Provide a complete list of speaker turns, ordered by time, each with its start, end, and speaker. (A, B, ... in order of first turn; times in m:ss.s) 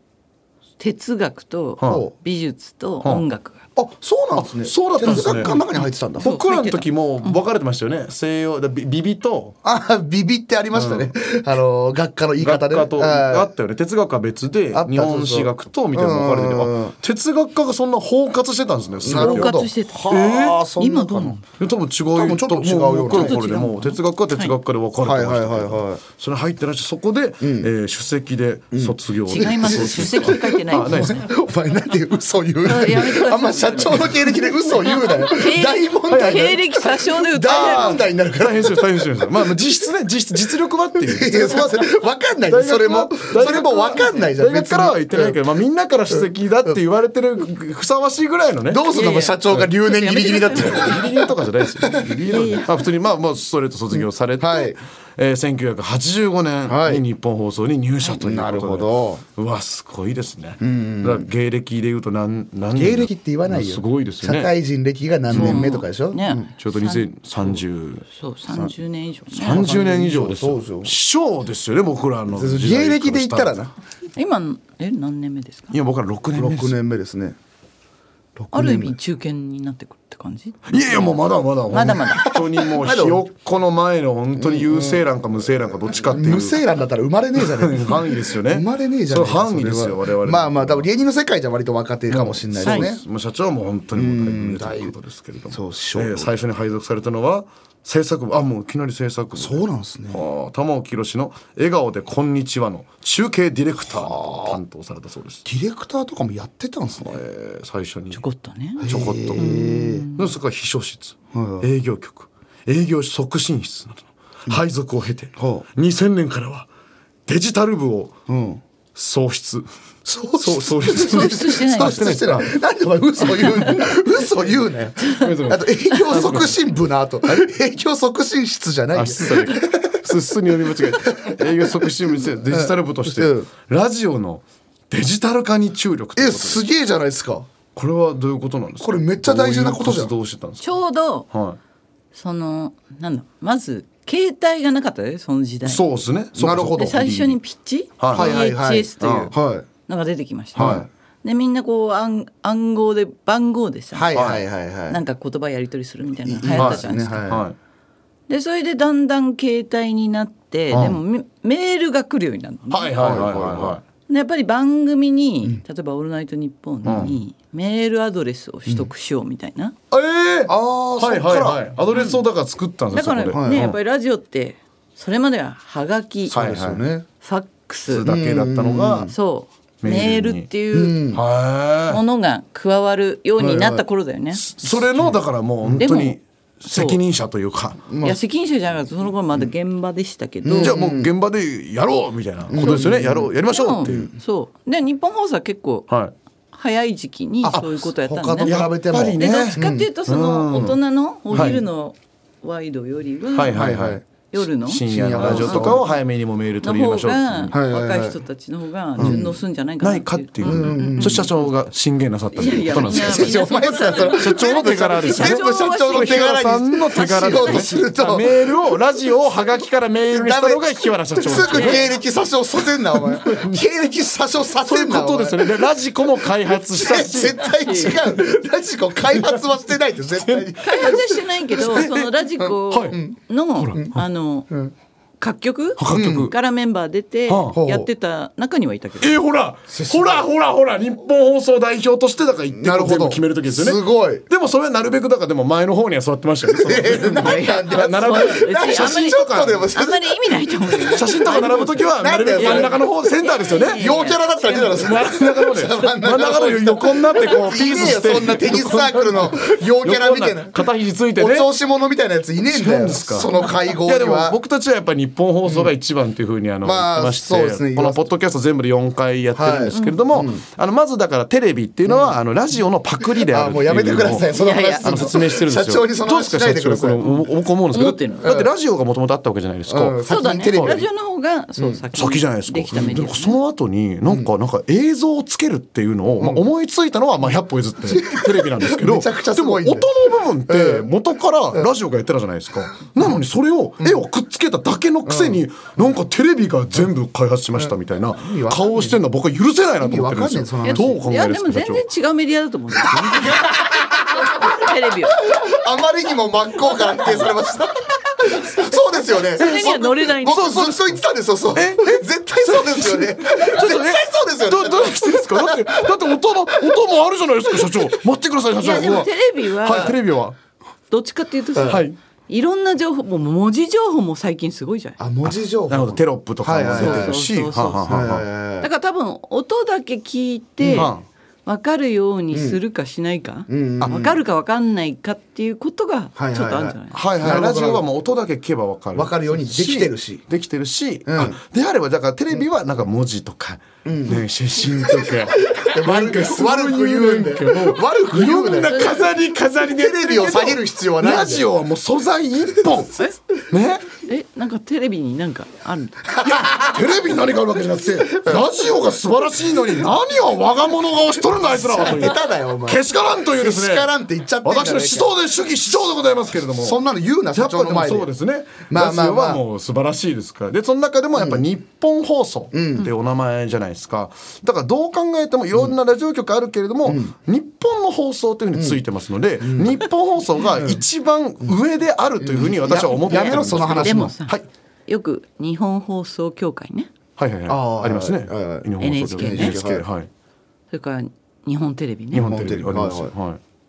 0:00.8-0:03.6 A
0:01.8-0:02.0 B
0:01.8-0:02.1 C
0:03.8-0:06.3 C
0:04.3-0:05.6 B
0:05.0-0:07.4 A
0:06.2-0:09.6 B
0:09.6-0:13.5 C
0:10.7-0:11.1 B
0:12.4-0:20.6 B
0:14.7-0:16.9 C
0:19.0-0:21.4 C
0:19.1-0:21.4 A
0:21.6-0:31.2 B
0:22.1-0:23.4 C
0:23.1-0:24.5 A
0:25.0-0:26.0 C
0:27.4-0:27.7 C
0:28.7-0:39.5 C
0:29.3-0:31.0 A
0:32.6-0:38.0 A
0:36.1-0:36.5 B
0:37.4-0:41.7 B
0:41.0-0:45.4 C
0:42.5-0:48.9 B
0:48.7-0:52.1 C
0:48.9-0:51.0 A
0:50.5-1:04.5 B
0:52.3-0:52.7 A
0:54.4-0:54.8 C
0:56.7-0:57.0 C
0:58.1-0:59.2 C
1:00.6-1:01.3 C
1:02.7-1:06.5 C
1:05.3-1:05.7 B
1:05.3-1:07.6 A
1:06.6-1:08.0 B
1:08.1-1:09.8 A
1:09.3-1:13.6 B
1:09.5-1:10.9 C
1:12.3-1:13.7 C
1:14.2-1:15.7 A
1:15.7-1:16.8 B
1:16.3-1:17.4 C
1:18.4-1:18.9 C
1:18.5-1:21.2 A
1:20.7-1:26.6 B
1:21.7-1:22.3 A
1:22.2-1:23.2 C
1:24.4-1:25.0 C
1:25.9-1:33.0 C
1:27.4-1:30.9 B
1:32.1-1:45.4 B
1:33.9-1:34.9 C
1:35.5-1:36.4 C
1:39.3-1:40.2 C
1:43.9-1:44.6 C
1:45.4-1:47.2 C
1:47.0-1:48.2 B
1:48.1-1:50.3 A
1:48.8-1:50.0 C
1:48.8-1:56.7 B
1:51.3-1:51.7 C
1:55.4-1:55.6 C
1:57.3-1:58.2 B
1:58.3-1:58.6 C
1:59.0-1:59.7 B
2:00.0-2:10.0 C
2:00.4-2:02.5 B
2:00.9-2:02.2 A
2:03.4-2:03.9 A
2:05.2-2:06.6 B
2:08.9-2:16.6 B
2:11.0-2:13.5 C
2:16.2-2:17.5 C
2:17.7-2:20.6 B
2:18.8-2:20.1 C
2:20.6-2:21.3 A
2:21.3-2:21.6 B
2:22.1-2:25.8 A
2:25.6-2:27.4 B
2:26.3-2:27.0 C
2:26.7-2:29.3 A
2:28.0-2:28.3 B
2:28.1-2:29.6 C
2:29.0-2:29.3 B
2:29.9-2:34.1 A
2:30.5-2:30.8 B
2:30.5-2:30.9 C
2:33.9-2:35.0 C
2:34.1-2:34.4 B
2:34.9-2:37.2 A
2:36.2-2:37.4 C
2:36.6-2:37.6 B
2:38.3-2:43.3 A
2:42.7-2:43.8 B
2:43.0-2:43.8 C
2:44.1-2:49.8 A
2:46.8-2:47.1 B
2:49.9-2:53.8 B
2:50.5-2:51.6 C
2:51.9-2:52.2 A
2:52.9-2:56.4 A
2:53.3-2:53.6 C
2:56.3-2:57.0 C
2:56.3-2:56.8 B
2:57.2-2:58.0 A
2:57.9-2:59.1 B
2:58.0-2:59.1 C
2:59.1-3:01.0 A
2:59.8-3:00.5 B
3:00.7-3:01.2 C
3:01.1-3:02.0 B
3:01.9-3:04.4 A
3:03.4-3:03.8 C
3:04.3-3:07.8 B
3:05.0-3:05.8 C
3:05.8-3:07.0 A
3:07.9-3:08.2 C
3:08.0-3:10.7 A
3:10.4-3:11.1 C
3:10.6-3:14.1 B
3:12.5-3:14.1 C
3:13.4-3:15.9 A
3:16.5-3:23.7 A
3:17.4-3:19.8 C
3:18.4-3:20.8 B
3:21.3-3:21.6 B
3:21.3-3:21.6 C
3:23.3-3:24.0 B
3:23.5-3:24.0 C
3:24.3-3:26.0 A
3:24.6-3:27.6 B
3:24.8-3:25.8 C
3:26.6-3:31.2 A
3:27.5-3:28.2 C
3:29.0-3:29.2 B
3:29.0-3:29.3 C
3:29.8-3:33.4 B
3:30.4-3:31.3 C
3:32.3-3:36.4 A
3:32.7-3:38.5 C
3:34.1-3:41.9 B
3:37.0-3:37.8 A
3:40.1-3:45.7 C
3:41.5-3:41.8 A
3:43.1-3:43.6 B
3:44.6-3:47.5 B
3:46.5-3:51.8 C
3:47.6-3:48.0 A
3:50.2-3:50.5 B
3:50.6-3:54.5 A
3:51.6-3:52.1 B
3:52.4-3:53.2 C
3:52.7-3:53.0 B
3:53.6-3:54.0 B
3:55.2-3:59.2 A
3:55.8-3:56.3 B
3:55.9-3:56.3 C
3:57.3-3:57.6 B
3:57.5-3:57.9 C
3:59.0-4:09.7 B
3:59.7-4:00.2 C
4:02.5-4:04.2 C
4:06.5-4:11.4 C
4:06.9-4:14.9 A
4:10.9-4:13.8 B
4:12.0-4:12.8 C
4:13.7-4:20.6 C
4:14.6-4:21.5 B
4:21.2-4:24.4 C
4:22.5-4:40.0 B
4:25.4-4:25.7 C
4:26.6-4:28.0 C
4:29.3-4:30.4 C
4:29.7-4:30.0 A
4:31.8-4:32.2 C
4:33.2-4:37.1 C
4:34.3-4:35.2 A
4:37.0-4:38.3 A
4:38.2-4:38.5 C
4:39.7-4:40.8 C
4:40.1-4:43.4 A
4:40.5-4:40.8 B
4:41.9-5:01.8 B
4:42.7-4:43.0 C
4:46.2-4:46.4 C
4:47.8-4:49.9 C
4:50.5-4:50.9 C
4:53.8-4:54.0 C
4:55.0-4:55.4 C
4:57.6-4:59.0 C
4:59.8-5:01.0 C
5:00.6-5:03.7 A
5:04.4-5:05.2 A
5:05.2-5:15.9 C
5:09.4-5:10.7 A
5:09.4-5:10.7 B
5:11.5-5:20.4 B
5:18.6-5:20.0 A
5:20.9-5:25.0 A
5:21.5-5:21.8 C
5:21.7-5:22.0 B
5:25.0-5:27.2 C
5:25.7-5:28.2 B
5:26.7-5:28.0 A
5:27.8-5:28.7 C
5:28.6-5:30.9 A
5:30.6-5:30.9 C
5:30.7-5:31.0 B
5:31.4-5:37.0 A
5:32.3-5:32.6 C
5:33.5-5:34.2 C
5:36.2-5:37.8 C
5:36.9-5:52.9 B
5:38.9-5:40.2 C
5:41.0-5:41.4 C
5:43.8-5:48.9 C
5:48.7-5:49.0 A
5:49.7-5:51.4 C
5:53.5-5:53.9 B
5:54.0-5:56.0 A
5:56.2-5:56.7 C
5:56.2-6:03.9 B
5:58.0-5:58.4 C
6:01.4-6:05.1 C
6:04.4-6:06.8 B
6:06.6-6:08.1 C
6:07.3-6:24.4 B
6:08.7-6:09.4 C
6:11.1-6:11.4 C
6:12.5-6:12.9 C
6:16.8-6:17.1 C
6:18.5-6:18.8 C
6:19.4-6:19.8 C
6:22.2-6:24.1 C
6:23.0-6:26.9 A
6:27.2-6:30.1 B
6:27.5-6:29.8 C
6:28.8-6:29.6 A
6:30.7-6:32.3 A
6:32.1-6:33.4 B
6:32.1-6:33.1 C